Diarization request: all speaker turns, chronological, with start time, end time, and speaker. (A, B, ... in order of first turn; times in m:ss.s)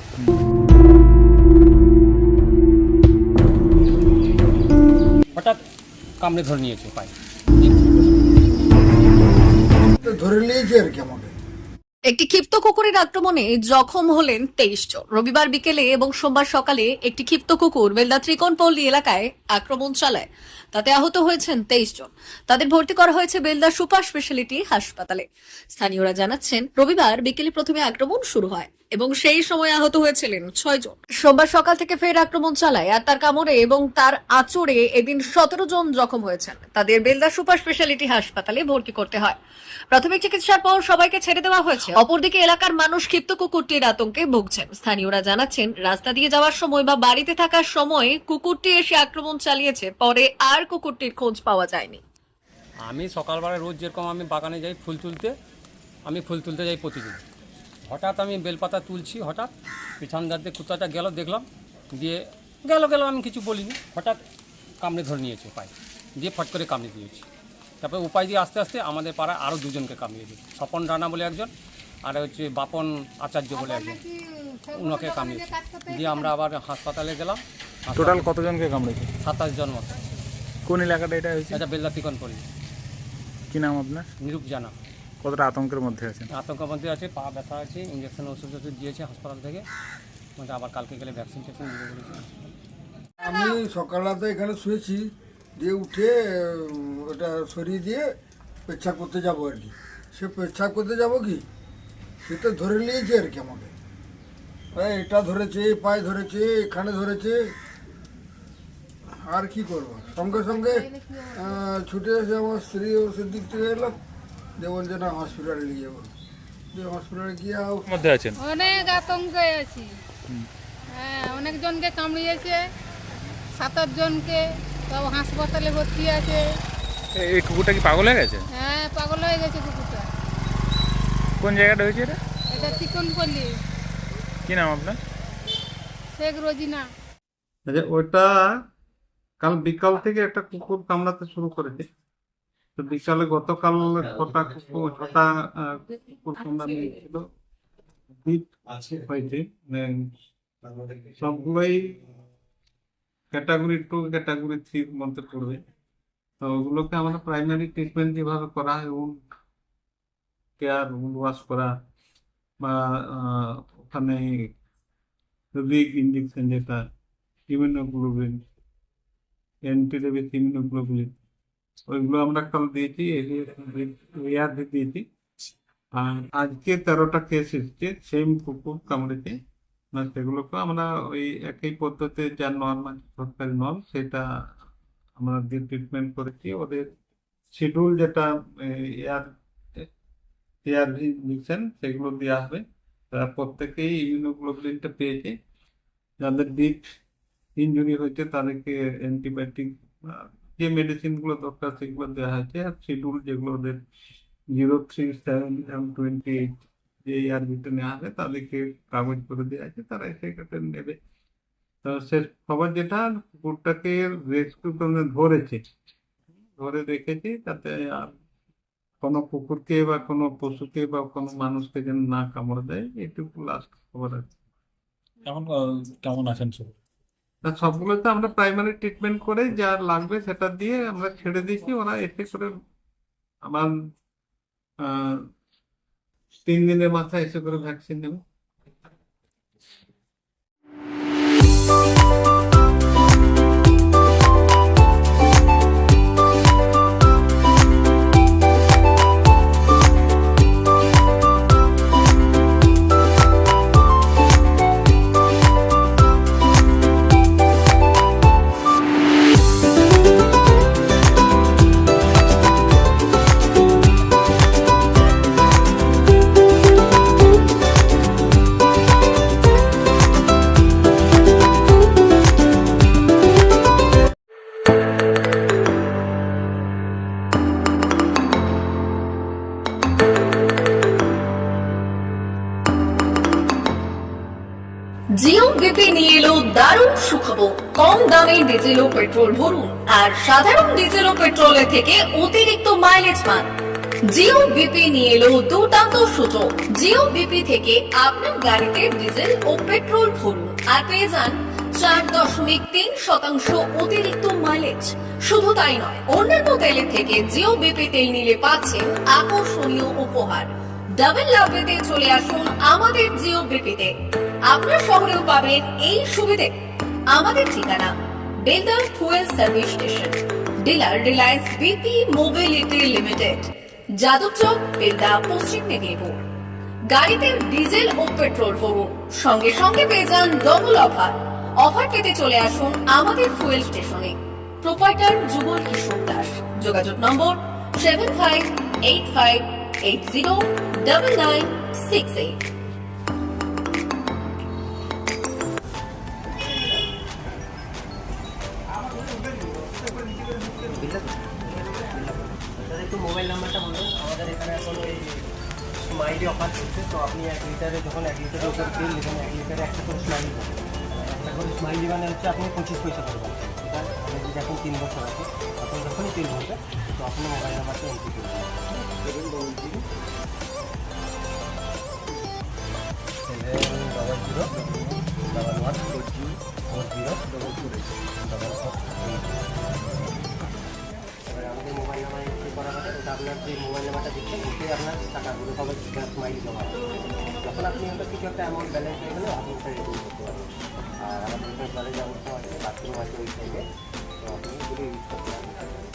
0:05.3-0:05.6 A
0:06.2-0:08.0 A
0:10.0-0:11.3 B
0:12.1-0:39.4 C
0:39.9-0:52.0 C
0:52.9-0:55.3 A
0:56.1-0:57.2 A
0:57.9-1:04.2 A
1:04.8-1:07.2 A
1:07.8-1:11.5 A
1:12.0-1:14.0 A
1:13.5-1:16.4 D
1:14.7-1:18.4 A
1:18.0-1:19.1 E
1:19.2-1:20.0 A
1:20.7-1:21.6 E
1:21.5-1:22.4 A
1:23.5-1:24.1 E
1:24.2-1:24.7 A
1:25.2-1:26.3 E
1:26.3-1:29.7 A
1:30.4-1:32.3 A
1:33.2-1:38.1 B
1:38.7-1:41.4 B
1:42.2-1:43.7 B
1:44.7-1:47.6 B
1:49.2-1:54.0 B
1:50.4-1:51.3 D
1:54.6-1:56.1 B
1:56.7-1:57.9 B
1:57.9-1:58.4 E
1:58.4-1:59.9 D
2:00.9-2:02.7 D
2:03.6-2:06.4 D
2:07.2-2:08.5 E
2:08.5-2:10.1 D
2:11.4-2:12.2 E
2:12.5-2:13.5 D
2:14.4-2:15.0 E
2:16.2-2:16.8 D
2:17.7-2:18.3 F
2:19.4-2:21.9 F
2:22.8-2:27.2 F
2:28.2-2:29.9 F
2:31.1-2:32.0 F
2:33.3-2:35.6 F
2:36.4-2:39.2 F
2:40.6-2:41.7 F
2:42.6-2:44.2 F
2:45.6-2:46.8 F
2:47.5-2:48.4 F
2:49.7-2:51.1 F
2:51.9-2:55.0 F
2:56.0-2:59.4 F
2:59.9-3:04.3 F
3:05.2-3:06.9 F
3:07.5-3:09.3 F
3:10.6-3:15.4 F
3:16.2-3:16.8 F
3:17.6-3:23.8 F
3:24.5-3:26.5 F
3:27.0-3:31.0 F
3:31.8-3:35.6 F
3:36.6-3:38.1 F
3:39.0-3:44.3 F
3:45.3-3:46.7 E
3:47.4-3:52.5 F
3:54.8-3:55.2 F
3:56.4-3:58.2 F
4:45.2-4:53.5 C
4:54.1-5:13.9 C
5:14.5-5:16.5 C
5:17.1-5:17.9 C
5:18.4-5:26.2 C
5:26.9-5:42.4 C
5:50.7-5:51.0 G
5:52.6-5:55.2 G
5:55.9-6:08.5 G
6:09.1-6:09.5 G
6:13.3-6:14.5 G
6:15.3-6:16.2 G
6:16.7-6:17.6 G
6:18.3-6:19.2 G
6:21.3-6:26.8 G
6:27.4-6:30.5 G
6:31.1-6:33.6 G
6:34.2-6:35.5 G